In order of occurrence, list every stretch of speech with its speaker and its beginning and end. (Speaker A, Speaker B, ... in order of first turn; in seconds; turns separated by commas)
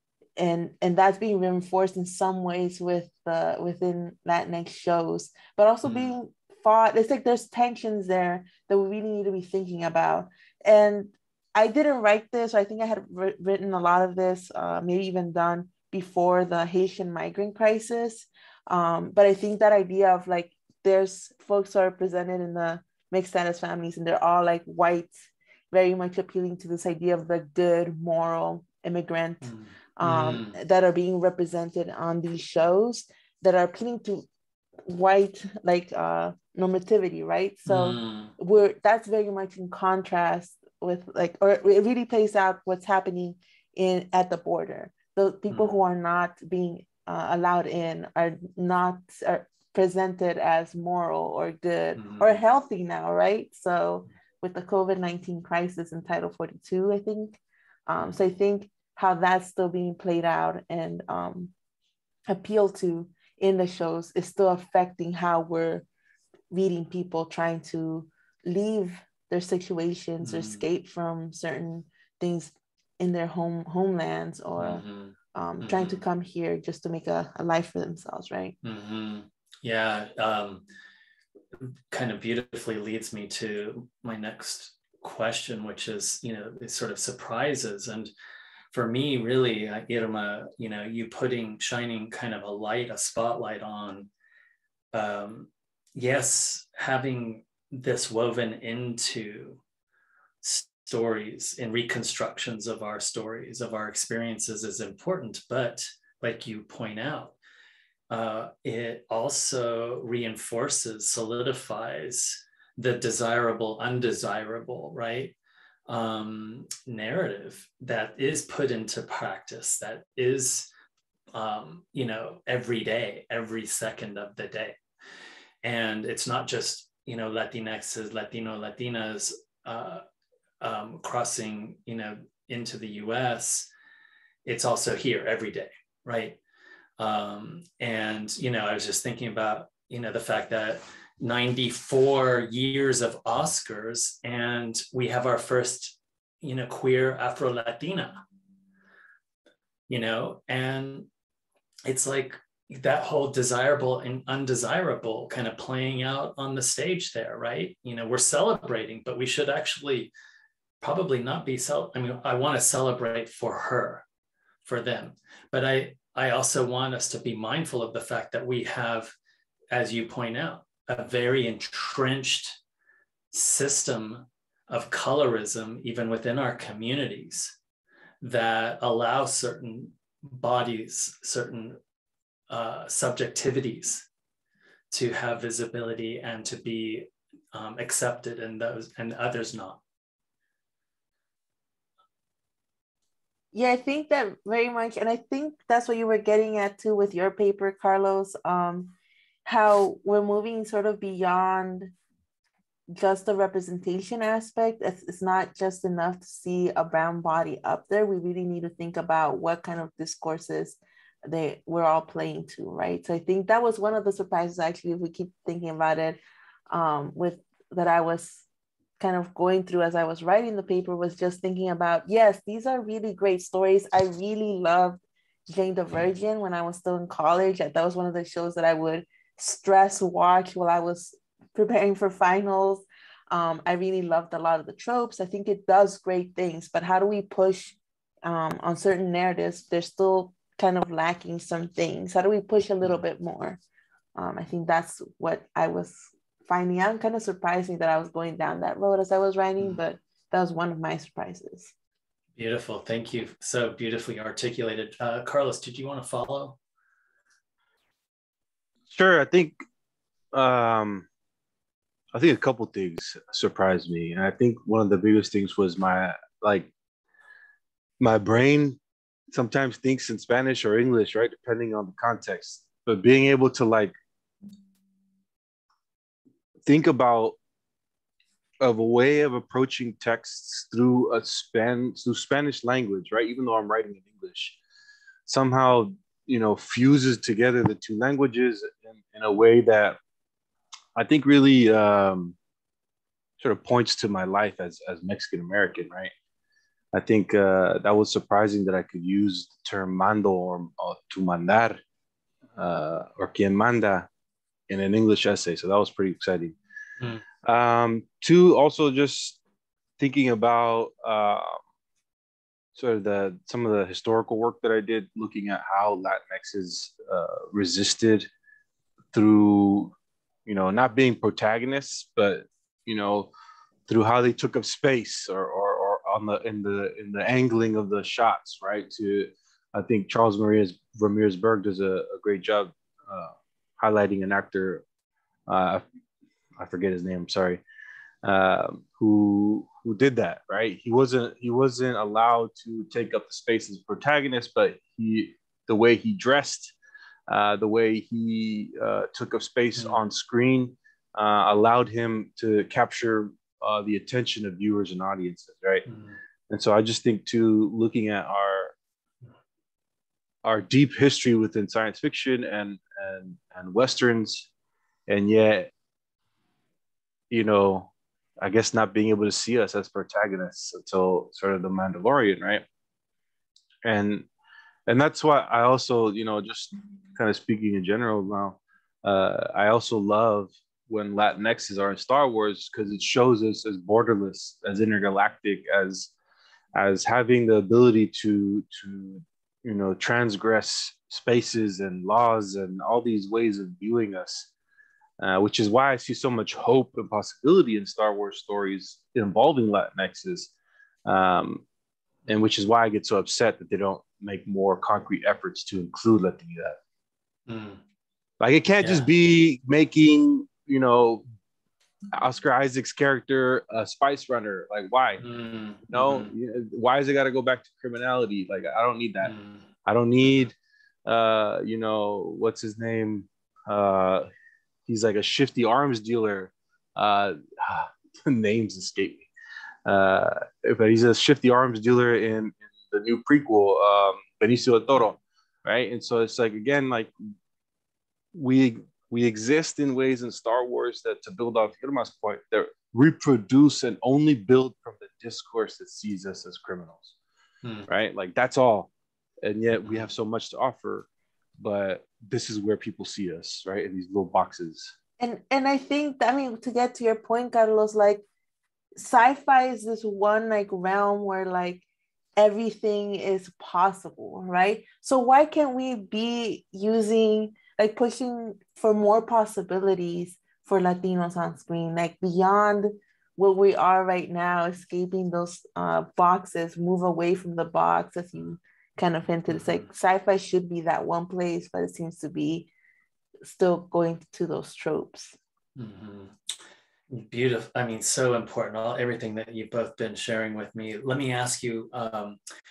Speaker A: 0.4-25.1, Speaker B: 5.8-6.1, Speaker A: 25.7-34.2, Speaker B: 29.4-30.6, Speaker A: 34.9-61.5, Speaker B: 37.7-38.3, Speaker B: 45.5-45.8, Speaker B: 52.0-52.4, Speaker A: 62.3-65.9, Speaker A: 66.5-74.8, Speaker B: 70.2-70.7, Speaker B: 74.6-76.0, Speaker A: 75.3-78.5, Speaker B: 78.6-80.7, Speaker B: 81.6-88.1, Speaker B: 88.7-94.1, Speaker B: 94.9-99.6, Speaker B: 100.4-107.3, Speaker B: 108.1-115.3, Speaker B: 115.9-120.7, Speaker B: 121.3-124.8, Speaker B: 125.6-130.0, Speaker B: 130.6-133.7, Speaker B: 134.4-136.4, Speaker B: 137.0-148.2, Speaker B: 149.9-151.1, Speaker B: 151.9-160.1, Speaker B: 160.8-164.1, Speaker B: 164.7-169.1, Speaker B: 169.7-172.6, Speaker B: 173.3-177.6, Speaker B: 178.2-181.8, Speaker B: 182.5-184.1, Speaker B: 184.9-189.8, Speaker A: 193.5-198.9, Speaker A: 199.5-201.9, Speaker A: 202.9-216.2, Speaker A: 216.7-218.4, Speaker A: 219.0-243.6, Speaker A: 244.2-251.7, Speaker B: 252.4-256.6, Speaker C: 258.9-259.6, Speaker C: 260.3-261.1, Speaker C: 262.1-266.7, Speaker C: 268.0-268.8, Speaker C: 269.3-273.9, Speaker C: 276.7-277.4, Speaker C: 278.6-284.6, Speaker C: 285.3-290.0, Speaker C: 291.0-292.4, Speaker C: 293.4-296.1, Speaker C: 296.9-301.8, Speaker C: 302.6-304.1, Speaker C: 304.7-306.6, Speaker C: 307.4-309.4, Speaker C: 310.0-311.6, Speaker C: 312.7-318.3, Speaker C: 319.1-319.9, Speaker C: 320.5-323.3, Speaker C: 323.9-334.8, Speaker C: 335.5-335.8, Speaker C: 336.6-337.6, Speaker C: 338.2-346.7, Speaker C: 347.3-355.9, Speaker B: 355.9-356.2, Speaker C: 356.5-358.7, Speaker C: 360.4-364.5, Speaker C: 365.1-365.7, Speaker C: 367.3-372.6, Speaker C: 373.8-374.3, Speaker C: 374.9-386.1, Speaker C: 386.8-394.5, Speaker C: 395.2-400.5, Speaker C: 401.1-401.6, Speaker C: 402.3-406.8, Speaker B: 407.5-407.8, Speaker C: 408.4-411.2, Speaker B: 408.8-409.1, Speaker C: 412.1-415.2, Speaker B: 415.2-416.3, Speaker C: 415.9-419.3, Speaker B: 419.2-419.7, Speaker C: 419.9-420.6, Speaker C: 421.1-424.3, Speaker C: 424.9-429.3, Speaker C: 429.9-437.1, Speaker C: 438.3-447.1, Speaker B: 447.6-447.9, Speaker C: 447.9-448.9, Speaker C: 449.4-451.1, Speaker B: 449.8-450.1, Speaker C: 451.6-454.9, Speaker A: 455.2-458.2, Speaker A: 459.0-461.8, Speaker A: 462.4-482.7, Speaker B: 479.5-479.9, Speaker A: 483.4-485.4, Speaker B: 485.8-486.4, Speaker B: 487.1-492.4